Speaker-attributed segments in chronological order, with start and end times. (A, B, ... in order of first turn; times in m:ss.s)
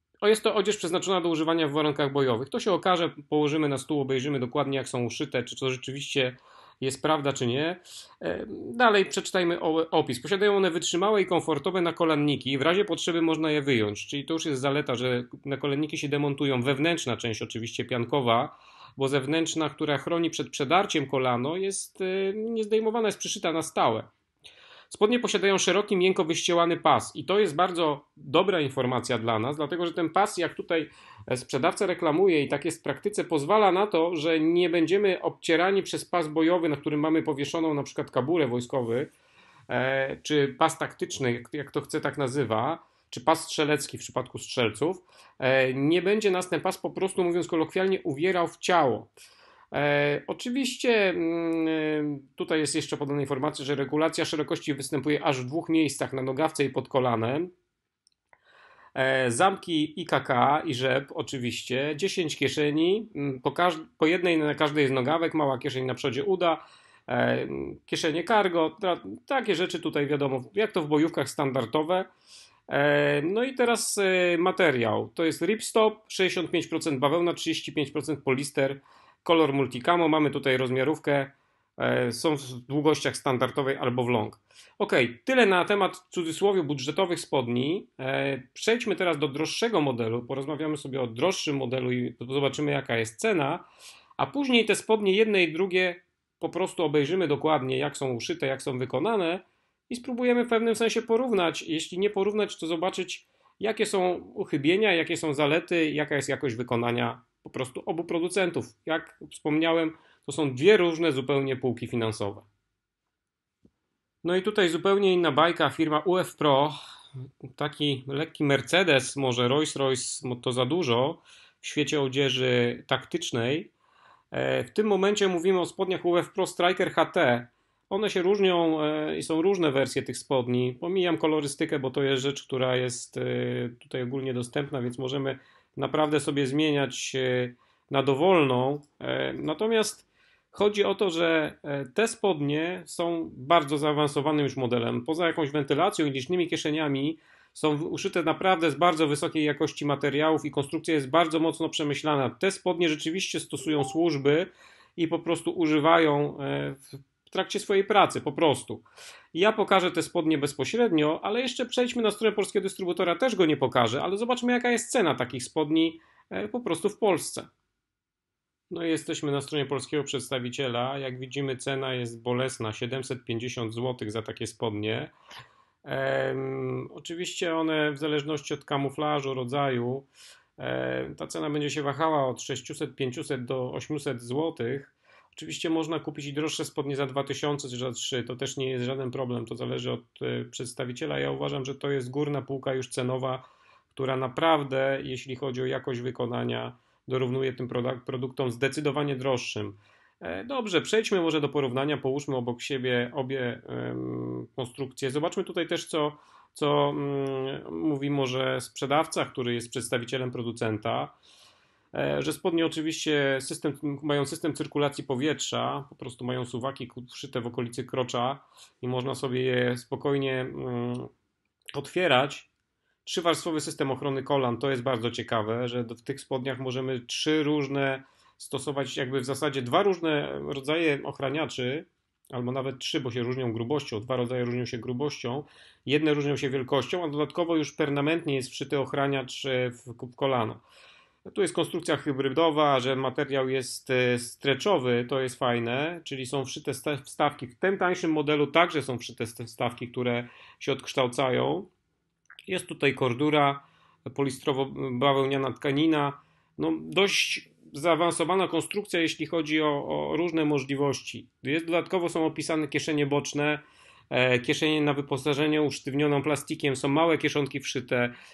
0:00.2-0:24.1 A
0:24.9-0:39.1 A
0:39.7-0:49.1 A
0:49.7-0:57.5 A
0:58.9-1:12.1 A
1:12.7-1:33.6 A
1:34.2-1:52.5 A
1:54.2-1:56.7 A
1:57.6-2:03.7 A
2:04.3-2:47.5 A
2:48.7-2:55.1 A
2:55.8-3:00.1 A
3:00.6-3:31.2 A
3:31.9-3:41.1 A
3:41.7-3:42.5 A
3:43.0-4:00.6 A
4:01.2-4:11.7 A
4:12.5-4:28.1 A